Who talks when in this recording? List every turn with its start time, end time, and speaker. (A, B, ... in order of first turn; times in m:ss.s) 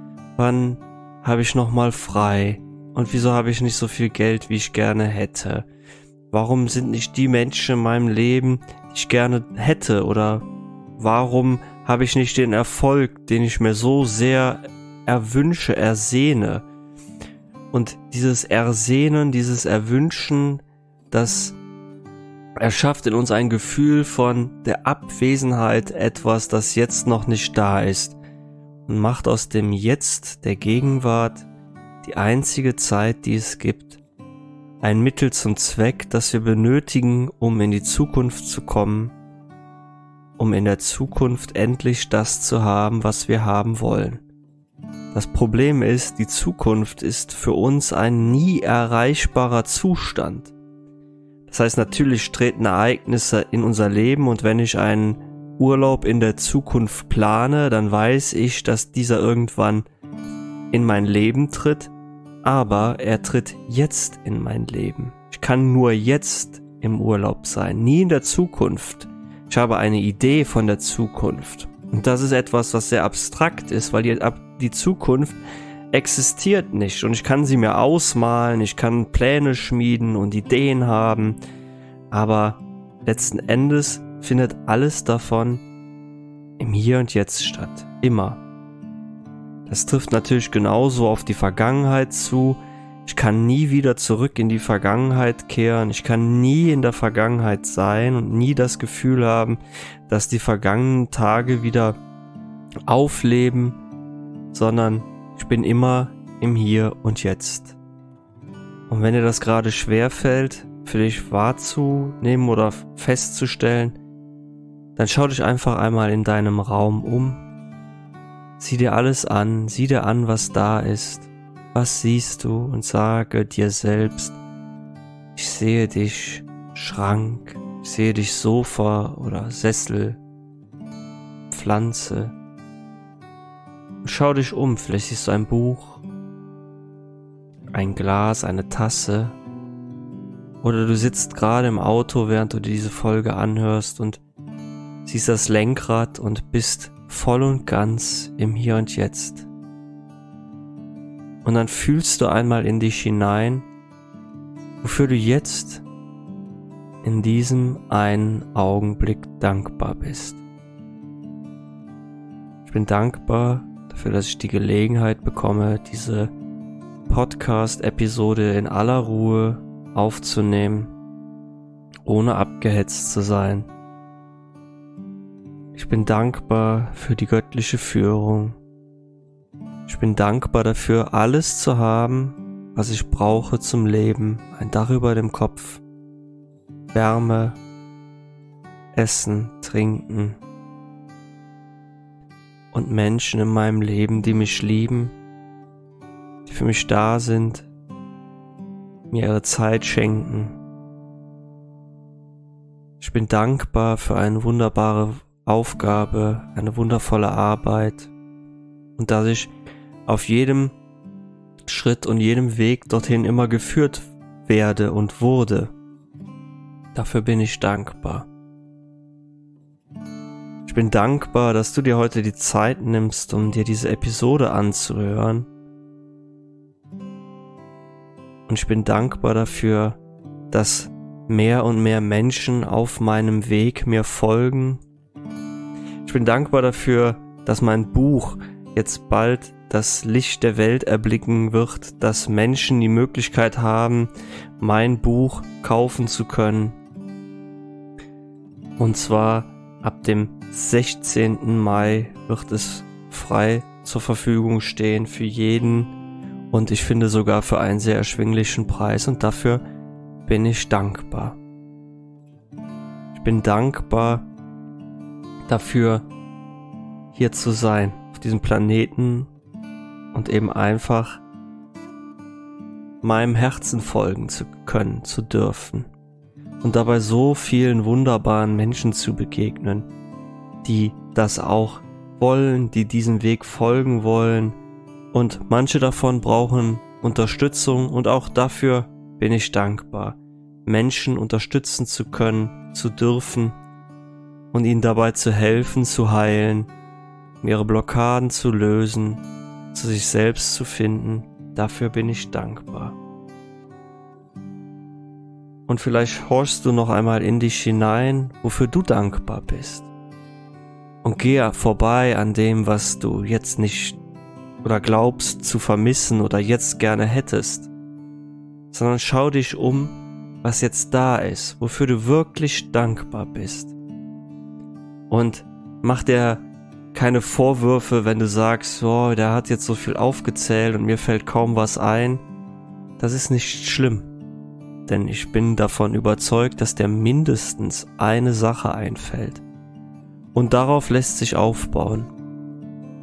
0:00.4-0:05.7 A
0:06.3-0:10.5 A
0:11.0-0:16.6 A
0:17.7-0:21.6 A
0:22.6-0:28.2 A
0:28.9-0:31.5 A
0:32.0-0:34.0 A
0:34.8-0:39.1 A
0:40.4-0:44.2 A
0:45.1-0:50.5 A
0:51.5-0:59.9 A
1:00.7-1:01.9 A
1:02.4-1:15.4 A
1:15.9-1:21.4 A
1:22.1-1:25.6 A
1:26.6-1:28.4 A
1:29.7-1:42.0 A
1:42.9-1:43.8 A
1:44.5-1:47.8 A
1:48.9-1:54.0 A
1:55.0-1:57.4 A
1:58.6-2:04.4 A
2:05.4-2:10.2 A
2:11.5-2:12.3 A
2:14.0-2:16.0 A
2:17.7-2:19.4 A
2:20.6-2:24.2 A
2:25.0-2:29.5 A
2:31.4-2:33.7 A
2:34.8-2:35.8 A
2:37.0-2:40.4 A
2:42.6-2:46.3 A
2:47.1-2:50.9 A
2:52.0-2:53.7 A
2:55.8-2:58.6 A
2:59.9-3:05.8 A
3:06.9-3:07.6 A
3:08.9-3:10.4 A
3:12.7-3:15.2 A
3:16.4-3:17.7 A
3:19.1-3:20.6 A
3:23.0-3:28.1 A
3:29.0-3:29.5 A
3:30.1-3:30.7 A
3:31.7-3:35.7 A
3:36.9-3:38.3 A
3:40.7-3:45.5 A
3:48.5-3:50.0 A
3:50.5-3:54.8 A
3:56.0-4:06.8 A
4:08.8-4:15.9 A
4:16.5-4:19.6 A
4:20.2-4:21.4 A
4:23.1-4:24.2 A
4:25.5-4:26.1 A
4:27.1-4:29.3 A
4:30.1-4:31.2 A
4:33.0-4:35.9 A
4:36.6-4:39.9 A
4:40.6-4:44.6 A
4:45.1-4:53.6 A
4:54.5-4:56.7 A
4:57.4-5:03.0 A
5:05.7-5:09.9 A
5:11.0-5:14.0 A
5:14.6-5:17.7 A
5:18.7-5:23.8 A
5:25.1-5:32.2 A
5:33.0-5:34.1 A
5:34.9-5:39.4 A
5:40.4-5:42.1 A